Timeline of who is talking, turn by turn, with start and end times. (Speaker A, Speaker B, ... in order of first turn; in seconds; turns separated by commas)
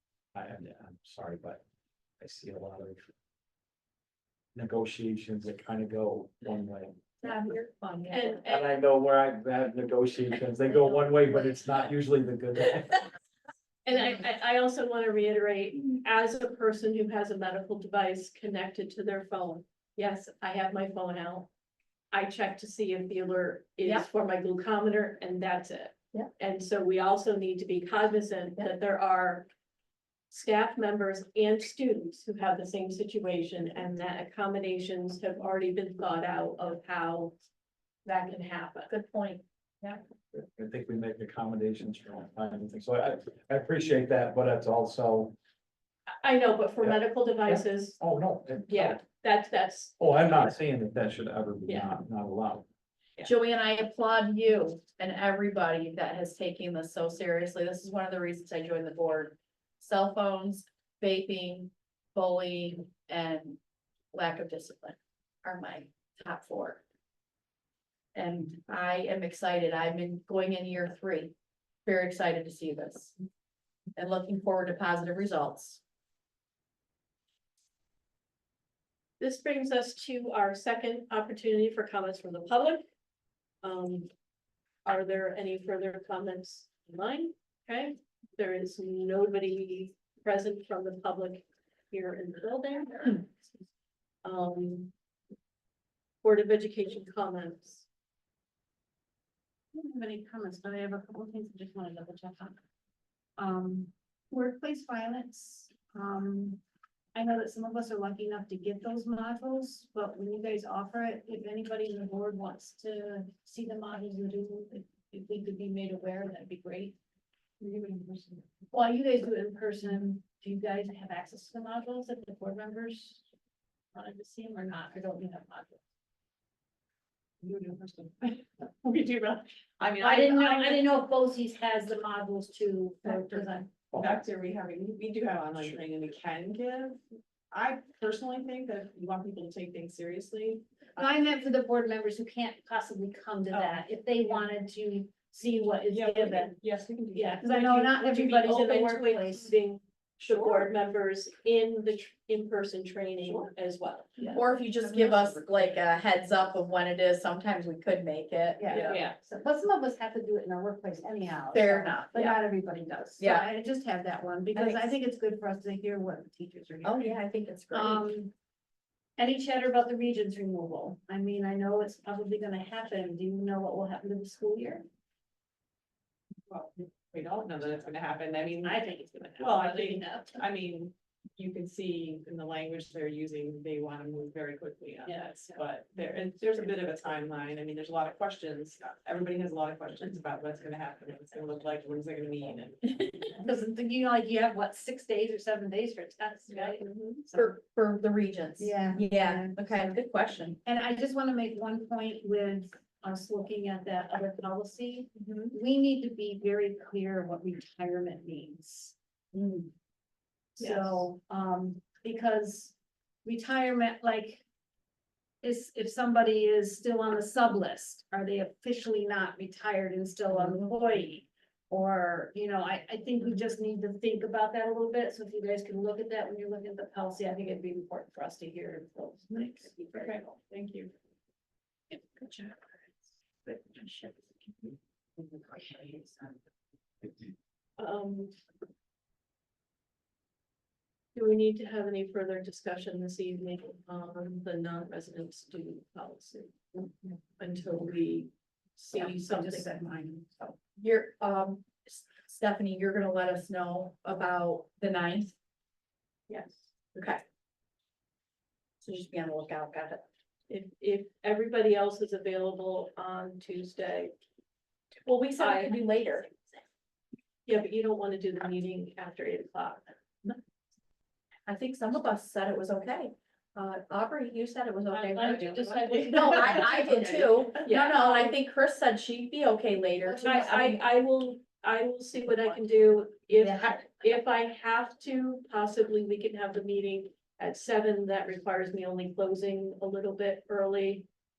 Speaker A: 0.3-1.6, Speaker A: 2.2-3.1, Speaker A: 4.5-7.0, Speaker B: 7.2-8.4, Speaker C: 7.3-8.1, Speaker D: 8.1-8.7, Speaker A: 8.5-13.1, Speaker D: 13.8-21.5, Speaker D: 22.1-29.5, Speaker D: 30.3-37.4, Speaker D: 38.0-38.9, Speaker B: 38.9-40.0, Speaker A: 40.3-45.4, Speaker D: 46.2-48.0, Speaker A: 46.8-49.0, Speaker D: 48.7-50.0, Speaker A: 50.0-52.7, Speaker B: 53.2-63.6, Speaker B: 64.1-66.8, Speaker B: 68.2-71.3, Speaker B: 71.9-73.2, Speaker B: 74.0-75.8, Speaker D: 79.2-82.8, Speaker D: 83.6-84.1, Speaker D: 84.8-93.3, Speaker D: 94.2-94.9, Speaker D: 96.2-97.9, Speaker C: 99.7-102.6, Speaker C: 103.4-106.6, Speaker C: 107.2-117.0, Speaker E: 117.6-118.4, Speaker C: 118.7-123.2, Speaker C: 123.9-125.8, Speaker E: 127.4-130.8, Speaker C: 130.0-134.0, Speaker B: 133.1-133.4, Speaker E: 134.0-140.6, Speaker C: 141.0-146.5, Speaker E: 143.5-144.5, Speaker E: 145.9-147.4, Speaker D: 147.1-154.3, Speaker C: 147.3-149.6, Speaker C: 150.3-150.6, Speaker E: 150.3-150.6, Speaker B: 154.3-159.0, Speaker E: 154.9-155.7, Speaker C: 158.6-167.0, Speaker D: 158.7-159.1, Speaker B: 161.5-162.3, Speaker B: 163.2-163.5, Speaker B: 164.6-164.9, Speaker B: 166.8-168.0, Speaker C: 167.7-168.3, Speaker C: 169.2-174.9, Speaker E: 176.5-178.8, Speaker C: 178.6-180.4, Speaker E: 179.4-193.0, Speaker C: 185.0-185.7, Speaker C: 193.3-196.8, Speaker D: 196.5-197.2, Speaker B: 197.3-200.6, Speaker C: 198.6-199.9, Speaker C: 200.6-209.5, Speaker D: 205.2-205.5, Speaker C: 210.6-212.7, Speaker D: 210.6-211.1, Speaker C: 213.2-214.4, Speaker C: 215.4-230.1, Speaker E: 230.0-230.9, Speaker B: 231.9-232.8, Speaker B: 233.5-234.8, Speaker B: 235.7-236.1, Speaker D: 237.8-238.3, Speaker D: 241.2-249.7, Speaker C: 248.9-250.4, Speaker B: 250.4-255.3, Speaker D: 256.3-256.7, Speaker B: 256.9-257.2, Speaker B: 258.8-260.0, Speaker D: 260.5-264.1, Speaker B: 265.1-266.6, Speaker D: 265.4-265.8, Speaker D: 267.5-269.9, Speaker B: 271.5-280.8, Speaker C: 274.9-277.3, Speaker D: 277.6-278.3, Speaker C: 280.1-280.4, Speaker D: 280.2-291.1